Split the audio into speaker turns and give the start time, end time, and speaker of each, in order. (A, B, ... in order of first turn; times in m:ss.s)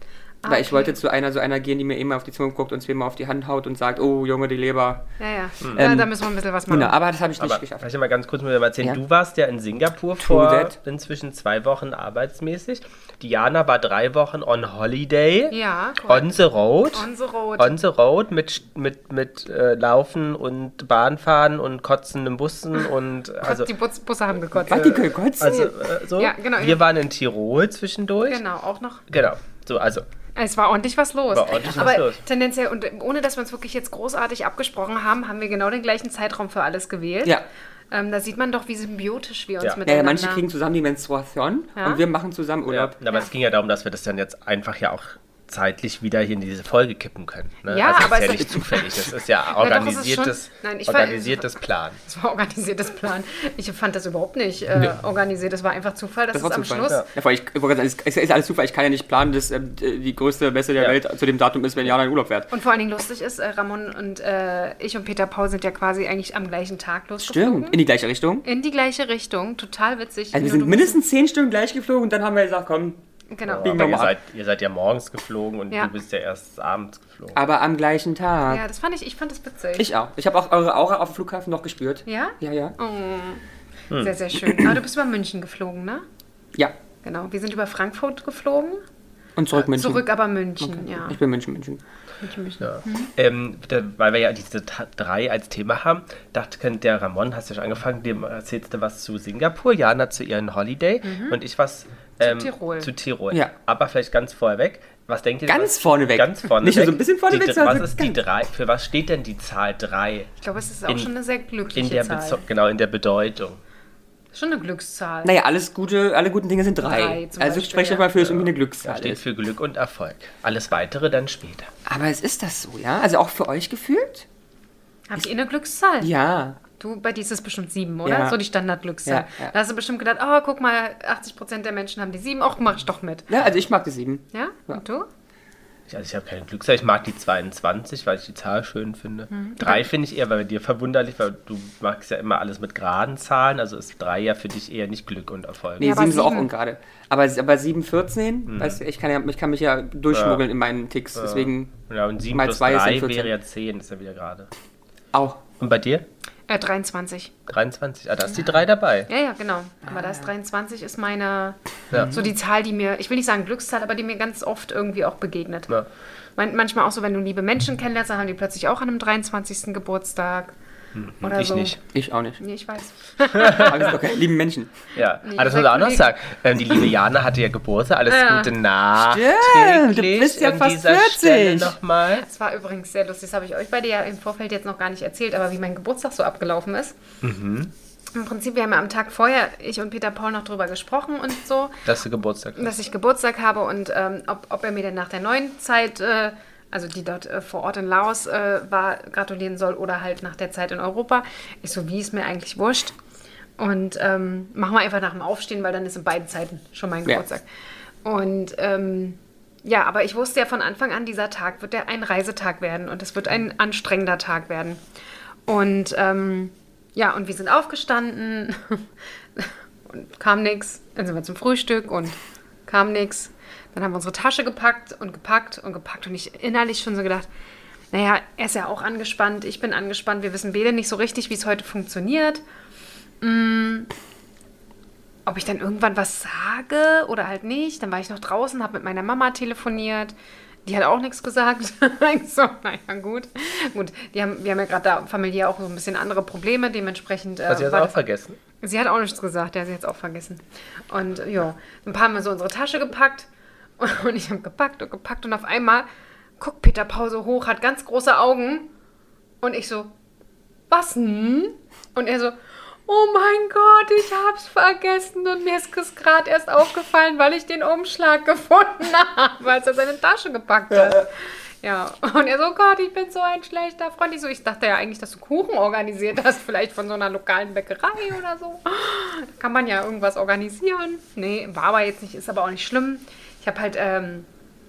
0:00.4-0:01.0 A
0:00.4-0:05.1 B
0:05.2-0:06.9 A
0:05.6-0:06.0 C
0:05.7-0:06.1 B
0:06.7-0:07.9 B
0:07.4-0:15.5 C
0:10.2-0:10.7 B
0:15.5-0:16.3 A
0:16.0-0:17.0 C
0:16.9-0:17.8 A
0:17.6-0:23.7 C
0:23.4-0:25.0 A
0:24.6-0:25.7 B
0:24.7-0:28.4 C
0:26.2-0:26.8 A
0:28.3-0:29.0 A
0:29.1-0:30.0 C
0:30.4-0:37.4 A
0:31.3-0:32.2 C
0:31.5-0:31.9 B
0:37.9-0:40.4 A
0:39.8-0:43.0 B
0:41.8-0:42.0 A
0:42.7-0:52.0 C
0:47.6-0:48.9 A
0:49.5-0:57.0 A
0:56.3-1:02.5 B
1:02.5-1:07.8 A
1:07.2-1:08.4 B
1:08.4-1:11.0 A
1:10.3-1:13.0 B
1:13.3-1:13.8 A
1:13.5-1:17.4 C
1:13.6-1:14.1 B
1:17.3-1:18.6 B
1:18.5-1:19.9 A
1:19.8-1:22.7 B
1:22.0-1:23.4 A
1:24.0-1:26.0 A
1:27.0-1:28.8 A
1:29.4-1:30.1 B
1:29.5-1:31.2 A
1:30.6-1:31.8 B
1:32.2-1:33.1 A
1:32.6-1:50.3 C
1:41.0-1:41.4 A
1:42.2-1:42.9 A
1:45.4-1:48.2 B
1:50.4-1:52.4 A
1:51.7-1:53.6 C
1:54.3-1:55.3 A
1:55.2-1:59.2 B
1:56.8-1:58.1 A
1:58.1-2:01.7 C
2:01.8-2:04.2 B
2:05.1-2:06.1 A
2:06.0-2:06.6 B
2:06.8-2:13.3 A
2:08.0-2:08.4 B
2:09.0-2:09.5 B
2:13.3-2:14.8 B
2:14.3-2:15.1 A
2:15.9-2:26.0 C
2:19.3-2:19.9 A
2:25.8-2:31.7 B
2:25.8-2:26.5 A
2:28.5-2:28.8 C
2:30.1-2:30.4 C
2:31.1-2:34.5 C
2:32.3-2:33.3 B
2:35.1-2:35.4 B
2:35.6-2:36.0 C
2:36.5-2:37.3 A
2:37.5-2:39.1 C
2:39.1-2:45.7 A
2:39.8-2:40.3 B
2:41.9-2:42.2 C
2:41.9-2:42.3 B
2:46.4-2:50.5 A
2:50.9-2:51.8 C
2:51.2-2:51.8 A
2:51.9-2:52.4 B
2:52.4-2:54.0 A
2:53.3-2:53.8 C
2:53.4-2:54.7 B
2:54.9-3:02.2 C
2:55.2-2:56.1 A
2:58.1-2:58.5 A
2:59.0-3:01.8 B
3:02.2-3:07.0 A
3:07.2-3:07.7 C
3:08.1-3:11.8 A
3:11.8-3:12.8 C
3:12.6-3:22.9 A
3:23.6-3:27.4 A
3:28.0-3:34.8 A
3:35.5-3:47.3 A
3:47.9-3:52.4 A
3:53.2-3:53.9 A
3:55.2-4:00.1 A
4:00.6-4:08.0 A
4:07.5-4:08.4 C
4:08.6-4:13.3 A
4:13.8-4:15.9 A
4:16.4-4:18.7 A
4:19.4-4:19.9 A
4:20.7-4:44.3 A
4:30.7-4:31.0 B